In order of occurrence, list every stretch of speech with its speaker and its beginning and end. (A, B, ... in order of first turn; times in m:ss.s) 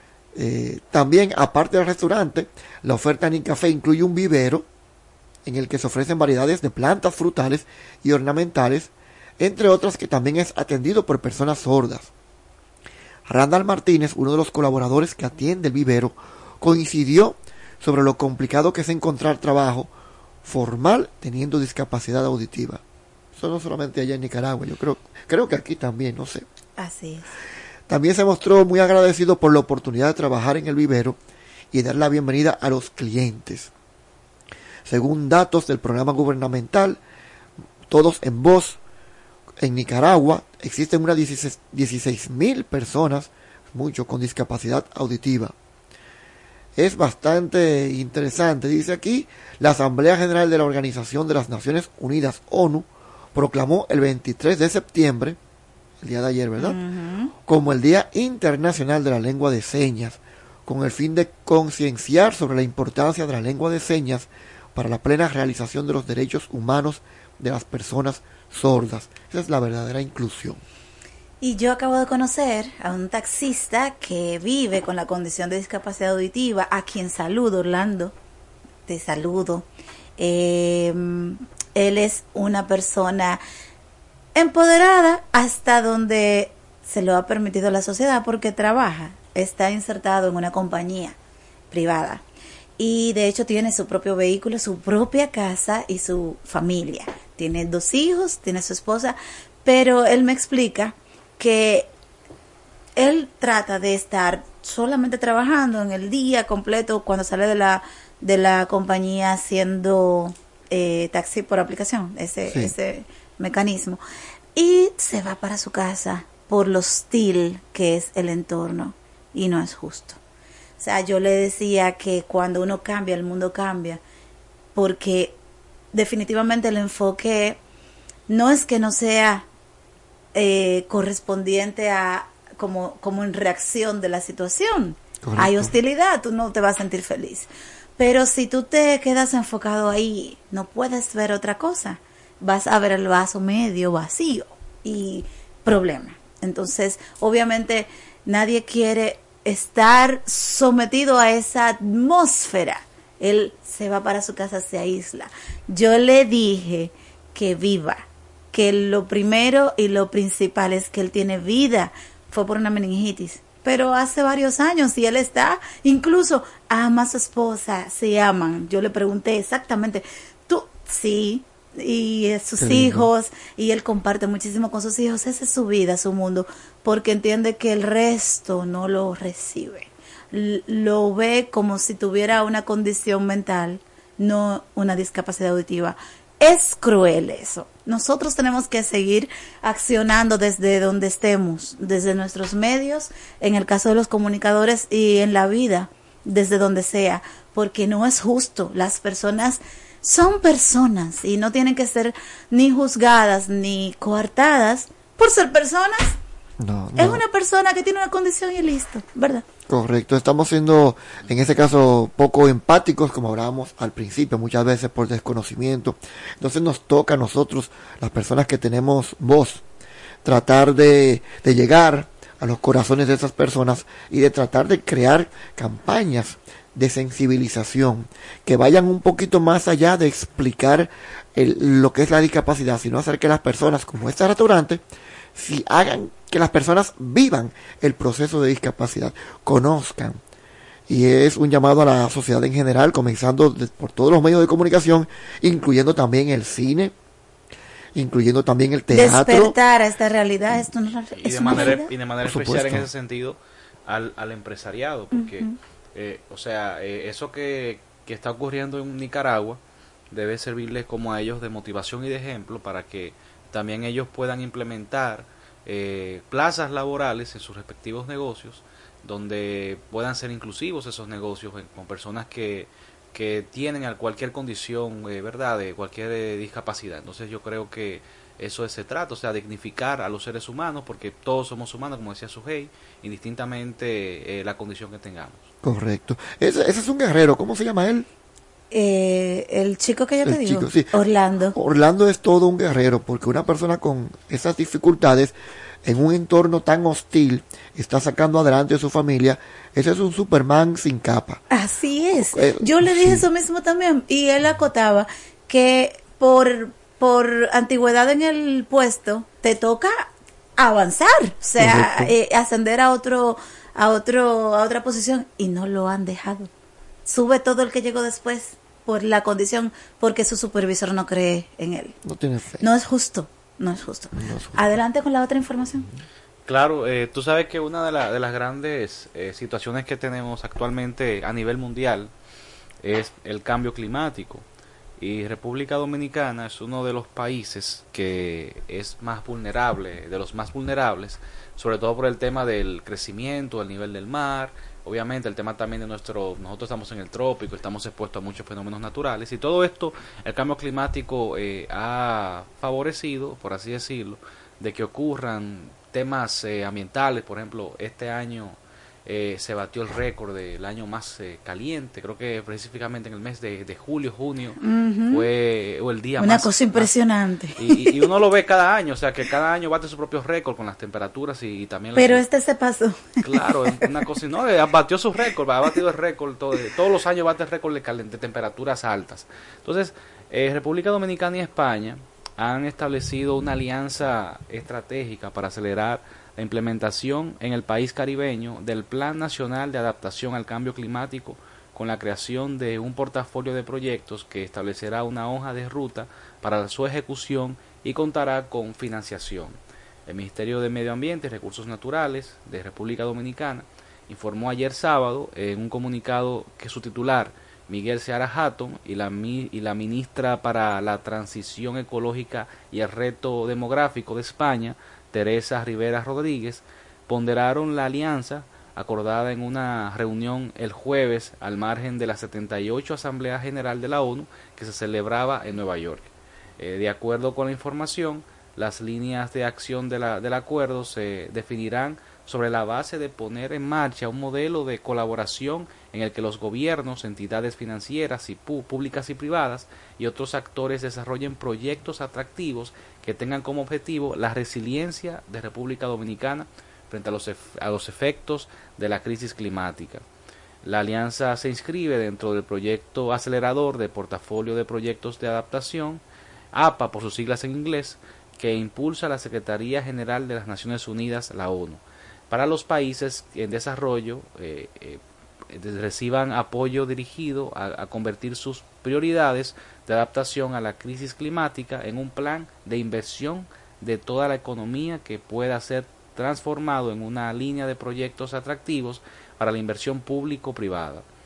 0:00.3-0:04.7 A
0:05.4-0:12.1 A
0:13.2-0:19.9 A
0:20.4-0:22.8 A
0:23.3-0:26.4 A
0:26.8-0:27.3 B
0:27.9-0:31.2 A
0:31.7-0:33.7 A
0:34.8-0:37.0 A
0:37.9-0:38.8 A
0:39.6-0:45.5 A
0:46.8-0:55.4 A
0:56.0-0:56.8 A
0:56.6-0:57.3 B
0:57.4-1:10.6 A
1:11.4-1:18.1 B
1:18.9-1:19.7 B
1:20.2-1:23.4 B
1:24.3-1:31.2 B
1:31.7-1:32.2 B
1:32.8-1:41.9 B
1:43.0-1:54.0 B
1:52.5-1:52.7 A
1:54.6-2:00.2 B
2:00.8-2:04.0 B
2:04.7-2:05.4 B
2:05.9-2:07.6 B
2:08.3-2:09.5 B
2:10.3-3:26.2 B
2:15.2-2:15.7 A
2:52.6-2:53.1 A
3:26.6-3:27.2 A
3:27.0-3:29.4 B
3:29.7-3:39.6 A
3:40.2-3:54.8 A
3:55.3-4:00.2 A
4:00.9-4:06.9 A
4:07.9-4:09.6 A
4:08.9-4:11.9 B
4:11.2-4:19.6 C
4:11.5-4:12.9 A
4:15.1-4:15.6 B
4:20.1-4:45.5 C
4:45.6-4:48.1 A
4:48.7-4:51.6 B
4:50.2-4:50.9 A
4:51.5-5:01.4 A
5:01.5-5:16.5 B
5:02.2-5:03.2 A
5:11.6-5:12.1 A
5:17.0-5:22.0 B
5:22.0-5:22.6 A
5:22.6-5:25.9 B
5:24.1-5:24.6 A
5:26.5-5:32.1 C
5:32.8-5:34.4 C
5:35.0-6:06.9 C
6:04.6-6:05.2 B
6:06.2-6:07.9 B
6:07.6-6:12.2 C
6:11.9-6:13.1 B
6:13.2-7:30.0 C
7:30.6-7:36.0 C
7:36.5-8:01.0 C